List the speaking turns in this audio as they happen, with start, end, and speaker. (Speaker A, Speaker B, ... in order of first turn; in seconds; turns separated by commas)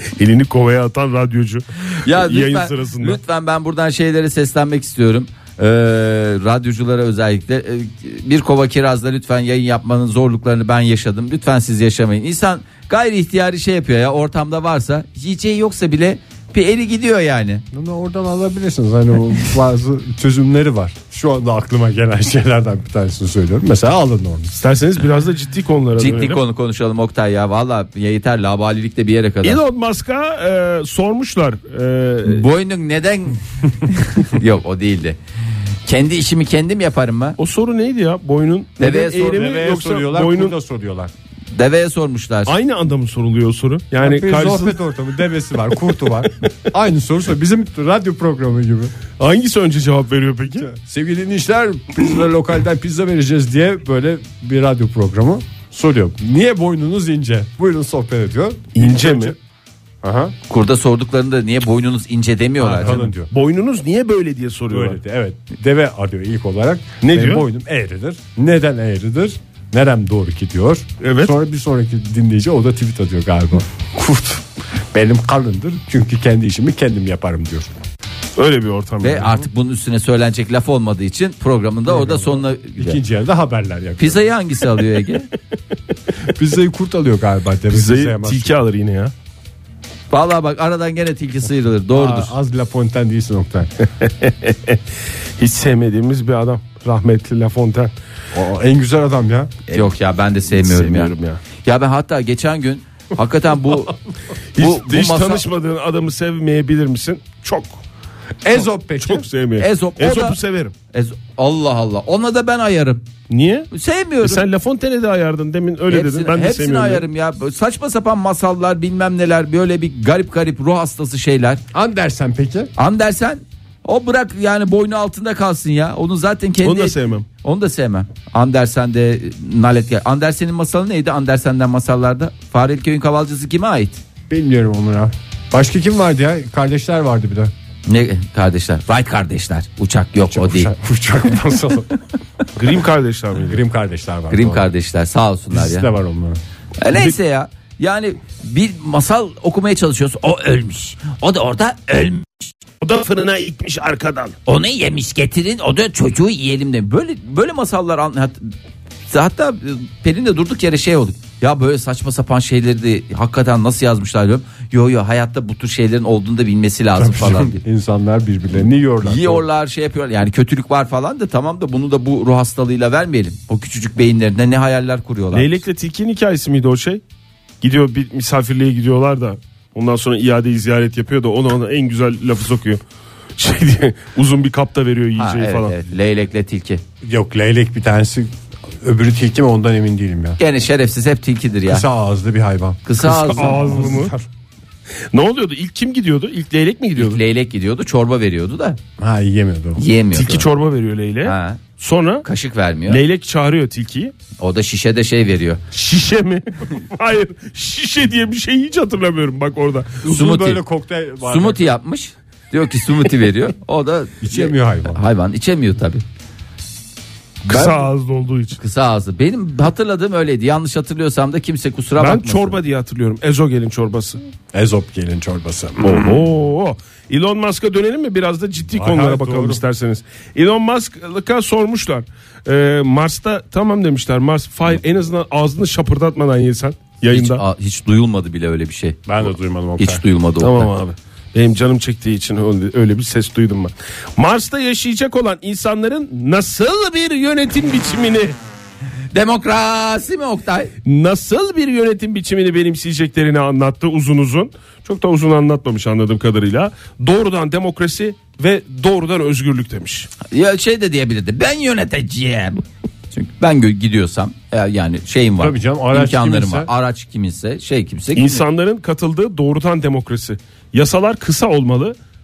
Speaker A: 0.2-3.2, Speaker B: 2.0-17.6, Speaker C: 17.7-24.6, Speaker A: 24.6-26.4, Speaker B: 26.0-29.6, Speaker A: 29.4-32.5, Speaker B: 32.3-35.2, Speaker B: 35.9-37.4, Speaker A: 37.4-40.5, Speaker C: 38.8-41.1, Speaker B: 38.8-39.3, Speaker B: 41.5-42.5, Speaker A: 42.5-44.8, Speaker C: 44.0-48.9, Speaker A: 46.1-46.5, Speaker A: 49.2-50.7, Speaker C: 50.6-59.4, Speaker A: 58.8-59.4, Speaker C: 60.0-60.3, Speaker B: 60.5-63.1, Speaker C: 62.6-63.3, Speaker A: 62.9-65.0, Speaker C: 64.7-77.7, Speaker A: 67.0-67.5, Speaker A: 71.0-71.3, Speaker A: 78.4-79.4, Speaker B: 79.0-83.0, Speaker C: 81.9-84.3, Speaker B: 84.0-85.3, Speaker C: 86.3-88.5, Speaker A: 87.7-89.1, Speaker B: 90.1-92.3, Speaker C: 91.9-93.7, Speaker A: 94.0-94.8, Speaker A: 95.4-97.9, Speaker C: 98.3-99.5, Speaker B: 99.7-103.9, Speaker A: 100.5-101.4, Speaker A: 104.6-107.8, Speaker B: 104.6-105.5, Speaker C: 108.4-109.3, Speaker A: 108.5-110.7, Speaker B: 109.6-110.4, Speaker B: 110.9-113.0, Speaker A: 113.3-113.7, Speaker B: 113.7-114.5, Speaker A: 114.2-117.1, Speaker B: 115.9-121.6, Speaker C: 121.7-122.7, Speaker B: 122.8-134.0, Speaker A: 126.6-127.3, Speaker C: 134.3-137.5, Speaker B: 137.9-140.7, Speaker C: 140.2-141.9, Speaker A: 142.6-143.6, Speaker C: 143.5-144.7, Speaker B: 144.3-145.9, Speaker C: 145.5-146.4, Speaker B: 146.8-152.5, Speaker A: 152.8-154.4, Speaker B: 154.5-158.4, Speaker B: 159.1-167.6, Speaker C: 167.0-169.4, Speaker B: 169.0-175.5, Speaker A: 175.3-177.0, Speaker A: 177.6-182.8, Speaker A: 183.4-185.8, Speaker B: 185.2-186.8, Speaker C: 187.0-190.4, Speaker B: 190.4-191.8, Speaker C: 191.7-194.3, Speaker B: 192.9-193.9, Speaker A: 193.0-194.1, Speaker A: 195.1-197.2, Speaker B: 197.0-198.8, Speaker C: 199.0-199.8, Speaker B: 199.8-200.5, Speaker A: 200.1-202.3, Speaker B: 201.2-201.6, Speaker B: 202.2-203.0, Speaker A: 202.9-204.1, Speaker B: 204.4-205.6, Speaker A: 205.7-210.0, Speaker C: 210.0-211.6, Speaker B: 210.1-210.6, Speaker B: 211.2-216.0, Speaker C: 214.2-215.0, Speaker B: 217.5-217.8, Speaker A: 217.5-218.6, Speaker B: 218.6-222.6, Speaker A: 222.0-224.2, Speaker C: 224.5-226.2, Speaker A: 225.8-237.4, Speaker C: 228.8-229.6, Speaker B: 237.1-239.0, Speaker C: 239.1-240.0, Speaker B: 239.8-240.7, Speaker A: 240.4-248.4, Speaker B: 249.1-250.7, Speaker A: 250.9-260.1, Speaker B: 260.3-268.4, Speaker C: 265.4-266.7, Speaker A: 268.1-272.0